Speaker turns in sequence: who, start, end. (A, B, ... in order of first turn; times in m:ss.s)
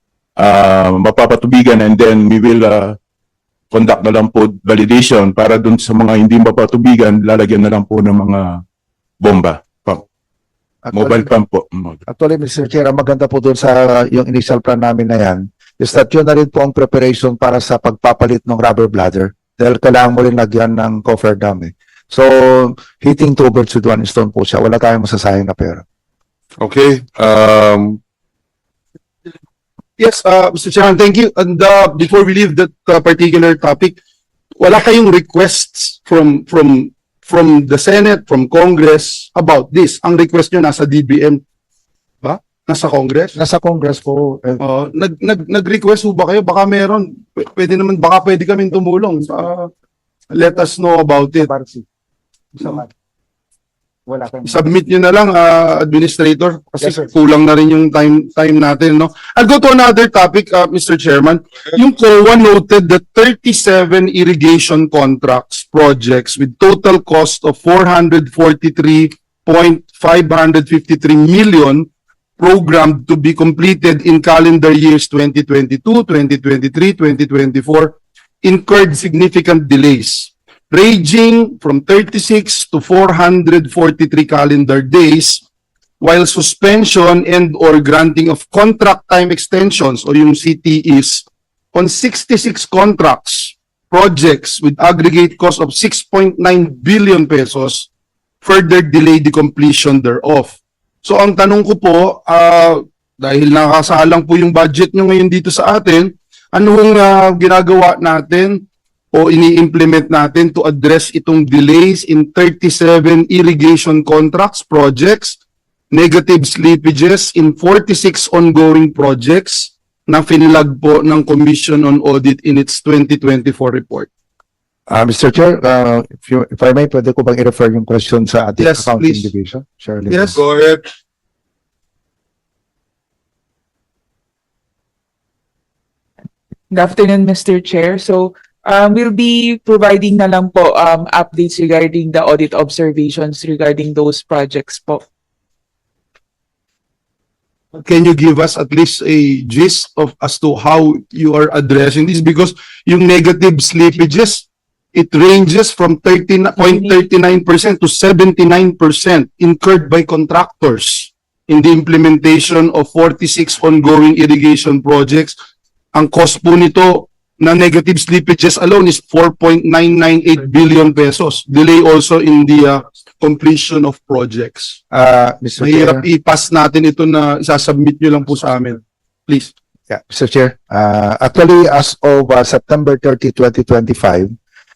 0:00.4-0:03.0 A
0:03.7-0:08.6 A
0:09.2-0:10.0 A
0:10.8-0:11.3 B
0:10.9-0:12.0 A
0:12.1-0:25.8 B
0:26.6-0:28.0 C
0:30.0-0:34.0 D
0:34.6-0:41.4 D
0:42.2-0:43.3 D
0:43.4-0:44.6 B
0:44.6-0:49.7 D
0:50.3-0:51.5 D
0:51.4-0:51.8 B
0:52.6-0:52.9 B
0:54.1-0:54.6 B
0:54.4-1:11.9 D
1:12.4-1:25.4 D
1:26.0-1:37.9 D
1:38.4-1:55.4 D
1:55.9-2:04.1 D
2:04.9-2:10.4 B
2:08.6-2:09.3 D
2:10.1-2:10.4 D
2:10.3-2:10.9 C
2:16.7-2:25.0 E
2:27.7-2:45.4 D
2:45.9-2:54.8 D
2:54.9-2:56.0 B
2:55.6-2:59.5 D
2:59.9-3:04.3 B